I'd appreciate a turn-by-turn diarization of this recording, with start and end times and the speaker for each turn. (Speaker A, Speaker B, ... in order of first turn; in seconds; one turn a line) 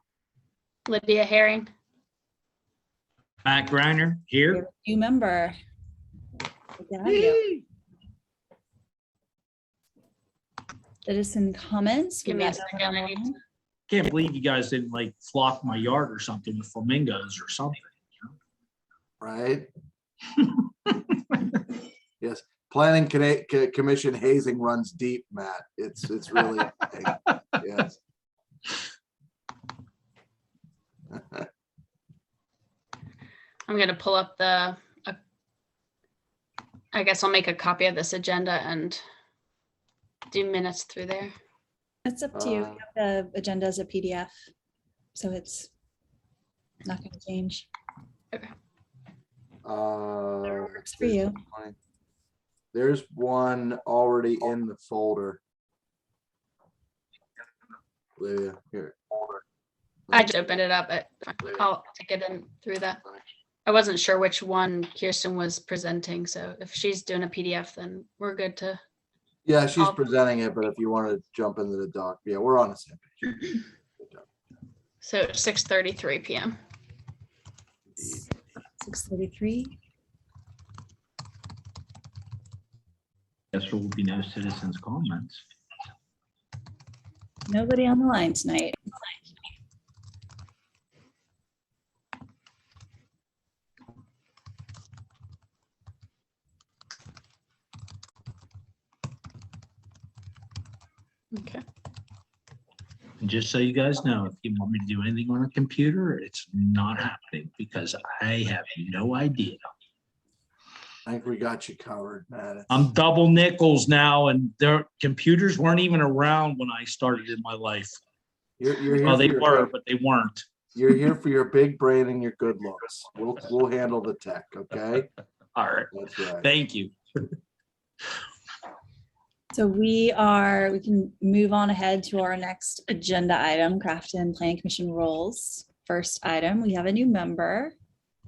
Speaker A: 0.9-1.7
Speaker B: 3.5-4.7
Speaker C: 4.5-5.5
Speaker C: 6.8-7.5
Speaker B: 7.2-7.6
Speaker C: 11.1-13.4
Speaker A: 12.2-13.2
Speaker B: 13.9-18.3
Speaker D: 19.2-19.7
Speaker D: 22.2-28.0
Speaker D: 31.1-31.5
Speaker A: 33.7-35.2
Speaker A: 36.9-39.0
Speaker A: 40.3-41.3
Speaker C: 42.0-44.4
Speaker D: 42.3-42.8
Speaker C: 45.1-45.7
Speaker C: 46.9-47.7
Speaker D: 49.6-51.8
Speaker C: 50.6-51.4
Speaker D: 52.7-55.4
Speaker D: 58.2-59.4
Speaker A: 60.1-63.0
Speaker A: 63.7-68.8
Speaker D: 69.5-73.5
Speaker A: 75.0-76.6
Speaker C: 78.0-78.3
Speaker C: 78.8-79.7
Speaker B: 83.5-85.4
Speaker C: 87.5-88.8
Speaker A: 101.3-101.6
Speaker B: 103.2-109.6
Speaker D: 111.0-112.7
Speaker B: 112.7-118.0
Speaker D: 118.6-119.7
Speaker B: 119.0-120.5
Speaker D: 120.7-125.1
Speaker B: 125.6-125.9
Speaker D: 125.9-126.5
Speaker B: 126.4-127.3
Speaker C: 129.5-137.8